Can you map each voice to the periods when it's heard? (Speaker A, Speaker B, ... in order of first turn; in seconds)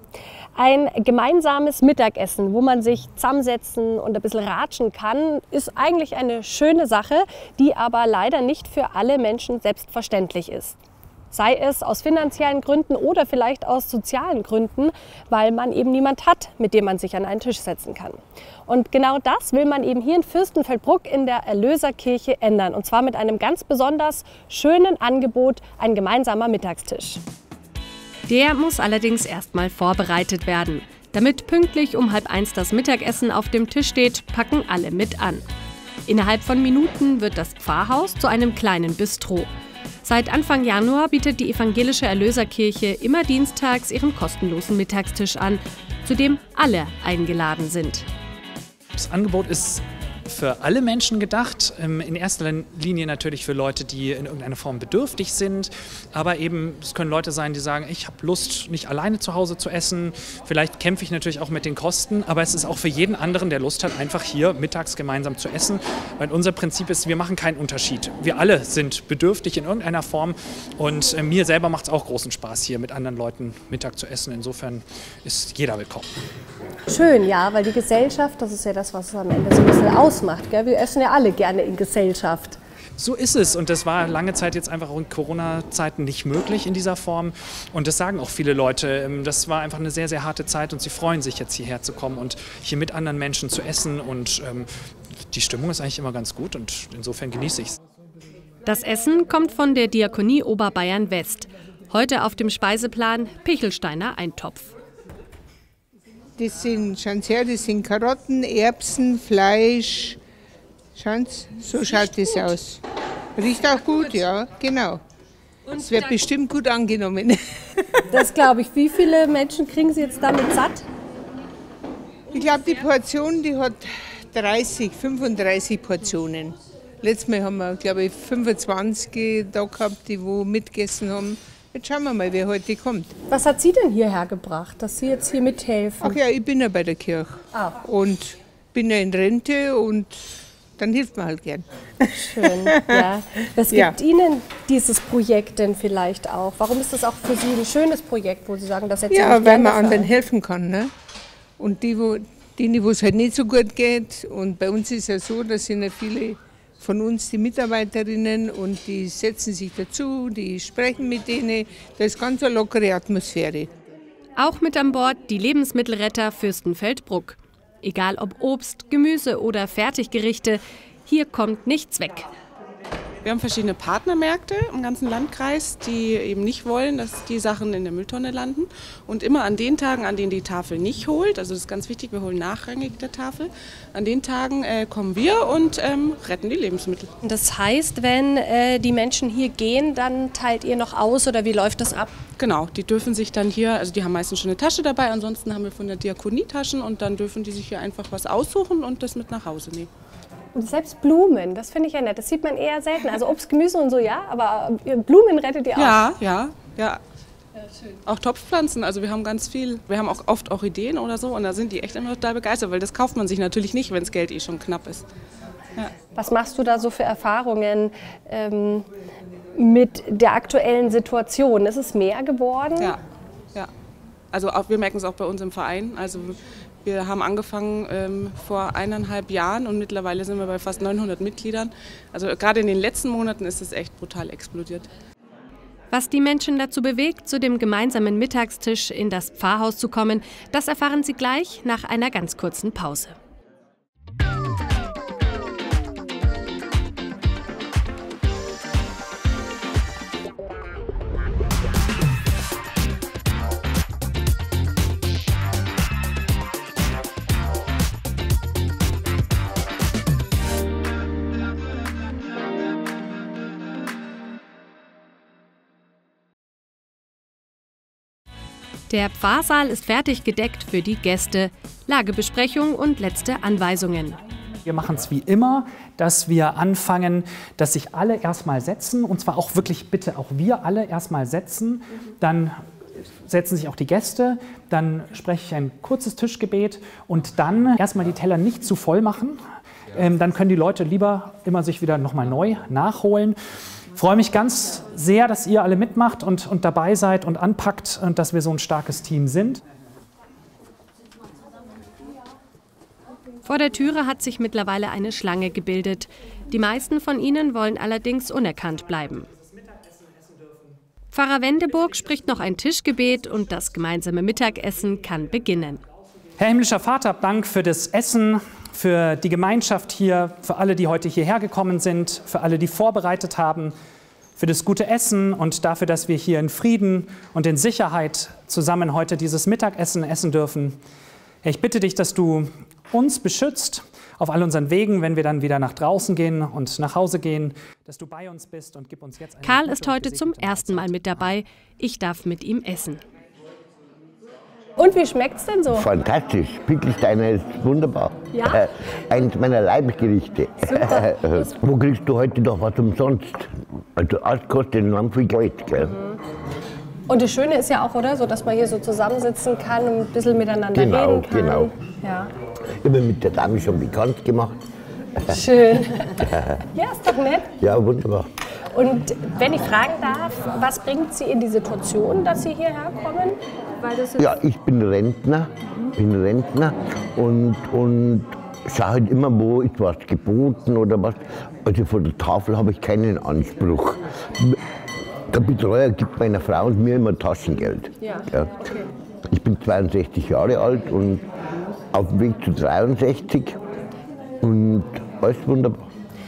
Speaker A: 0.6-10.8, 11.3-27.2, 76.9-82.6, 118.1-120.9, 133.3-136.2, 142.2-150.1, 187.3-192.1, 200.6-206.1, 216.1-218.9, 219.6-222.9, 344.8-345.9, 348.4-348.6, 350.6-351.2, 355.8-356.2, 357.1-362.3, 365.3-366.2, 366.7-367.5, 368.7-373.4
Speaker B: 28.3-35.4, 36.1-39.5, 40.0-48.1, 98.7-104.7, 164.4-172.3, 235.9-243.2, 268.9-274.2, 303.4-309.3, 311.1-315.8, 339.4-343.0
Speaker C: 49.0-76.1, 83.0-94.7, 95.3-97.8, 274.6-282.5, 283.2-289.4, 289.9-293.4, 294.0-299.6, 316.4-323.7, 324.4-330.8, 331.4-341.2
Speaker D: 106.4-110.2, 111.0-112.8, 113.4-115.0, 115.7-118.0, 122.3-133.2, 136.0-140.2, 140.8-143.1, 143.7-144.0, 149.1-150.9, 151.6-163.7
Speaker E: 173.2-187.1, 192.4-199.9, 205.8-207.0, 208.1-215.1, 224.3-234.9
Speaker F: 345.7-355.9, 360.7-361.7, 362.8-364.6, 367.6-368.3, 374.1-384.6, 385.3-388.6, 389.3-391.2, 391.9-393.6, 394.4-395.8